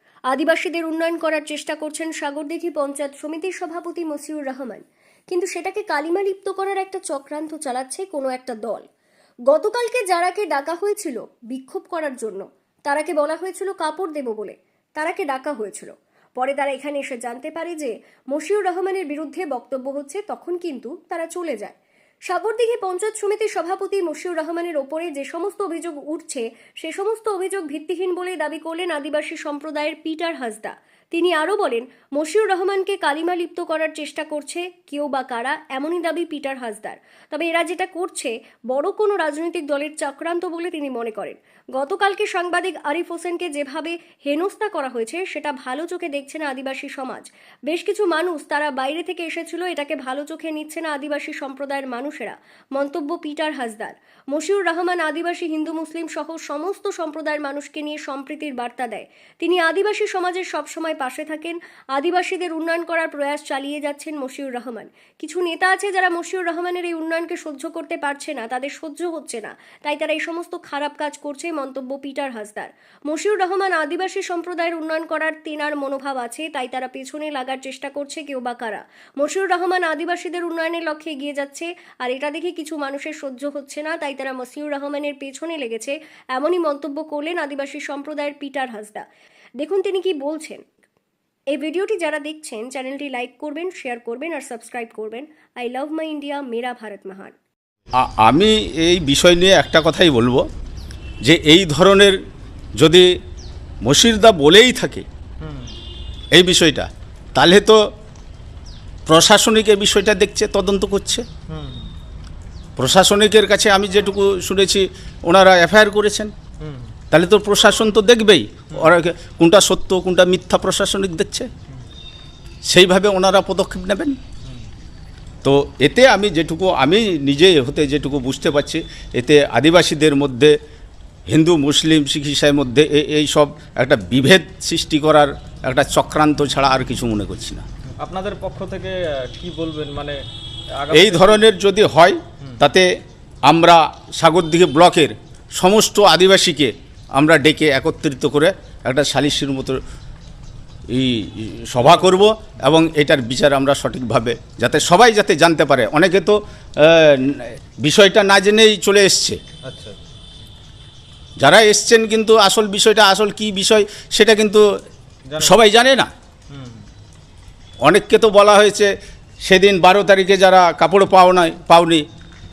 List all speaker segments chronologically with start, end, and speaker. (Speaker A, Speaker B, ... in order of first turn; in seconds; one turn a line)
Speaker A: 0.3-8.8
Speaker A: 9.5-21.8
Speaker A: 22.3-89.1
Speaker A: 89.6-90.6
Speaker A: 91.5-97.3
Speaker B: 98.0-100.4
Speaker B: 101.2-102.2
Speaker B: 102.8-103.1
Speaker B: 103.8-105.0
Speaker C: 105.4-105.8
Speaker B: 106.3-107.8
Speaker B: 109.1-111.2
Speaker C: 111.5-111.9
Speaker B: 112.8-116.3
Speaker C: 116.6-117.0
Speaker B: 117.1-121.5
Speaker B: 122.7-124.2
Speaker B: 125.4-130.6
Speaker B: 131.3-137.6
Speaker C: 138.0-140.2
Speaker C: 140.8-141.5
Speaker B: 140.9-142.9
Speaker B: 143.5-149.8
Speaker B: 150.9-159.4
Speaker C: 151.8-152.3
Speaker C: 159.7-160.0
Speaker B: 161.4-164.6
Speaker C: 165.3-165.7
Speaker B: 165.4-166.1
Speaker C: 166.5-166.9
Speaker B: 167.8-168.9
Speaker B: 169.4-172.0